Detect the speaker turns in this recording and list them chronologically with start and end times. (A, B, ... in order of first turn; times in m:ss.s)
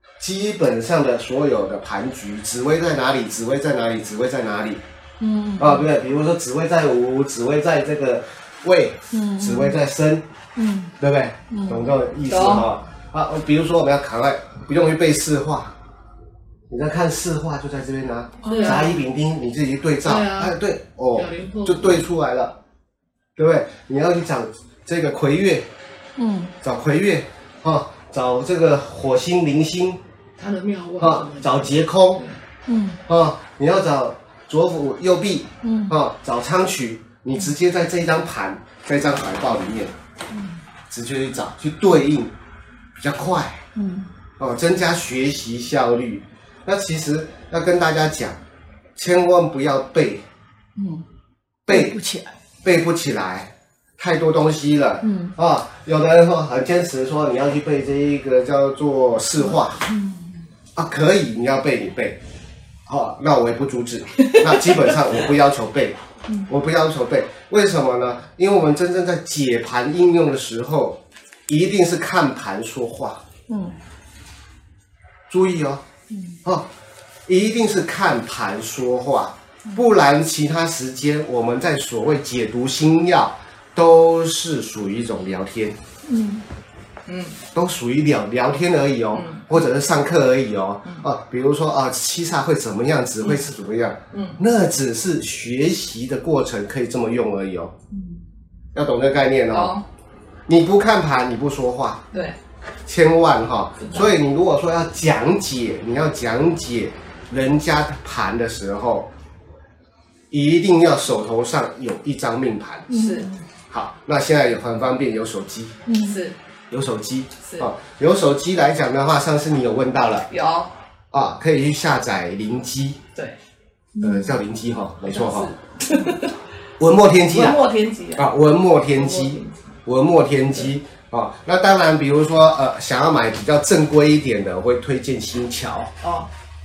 0:00.2-0:04.8 A
0:05.2-0:05.9 B
0:05.6-0:10.2 A
0:09.1-0:09.8 B
0:10.6-0:10.9 B
0:11.0-0:15.7 A
0:11.5-0:11.9 B
0:12.3-0:12.7 C
0:16.7-0:22.6 A
0:18.4-0:18.9 C
0:18.4-0:19.0 B
0:20.0-0:20.6 C
0:21.1-0:22.0 C
0:23.4-0:25.7 A
0:26.2-0:26.5 B
0:26.6-0:30.0 A
0:30.4-0:32.4 C
0:31.0-0:32.2 A
0:32.7-0:33.0 B
0:33.1-0:39.9 A
0:35.6-0:36.0 B
0:40.9-0:42.3 A
0:43.0-0:43.6 A
0:43.8-0:44.1 B
0:44.4-0:48.4 A
0:49.0-0:50.2 A
0:50.8-0:51.0 B
0:51.7-0:52.0 A
0:51.7-0:52.4 B
0:52.6-0:59.9 A
0:55.0-0:55.3 B
0:59.8-1:00.4 B
1:00.8-1:02.2 A
1:02.9-1:13.2 A
1:13.5-1:13.8 B
1:15.3-1:15.8 A
1:16.1-1:16.4 B
1:17.3-1:25.8 A
1:26.0-1:26.4 B
1:27.1-1:27.4 C
1:27.5-1:37.7 A
1:29.1-1:29.5 C
1:34.1-1:34.4 C
1:38.8-1:39.8 A
1:39.5-1:39.8 C
1:40.5-1:42.0 A
1:42.1-1:42.4 C
1:42.9-1:49.1 A
1:43.8-1:44.1 C
1:50.3-1:52.9 A
1:52.9-1:53.4 B
1:52.9-1:53.3 C
1:53.7-1:55.8 A
1:55.9-1:56.2 B
1:56.0-1:56.4 C
1:56.7-2:00.3 A
1:57.4-1:57.7 C
2:00.3-2:00.7 C
2:01.1-2:03.0 A
2:04.0-2:04.4 B
2:04.0-2:05.5 A
2:05.0-2:06.4 C
2:06.8-2:07.6 A
2:07.3-2:08.3 C
2:08.2-2:15.9 A
2:08.9-2:09.8 C
2:16.0-2:16.3 C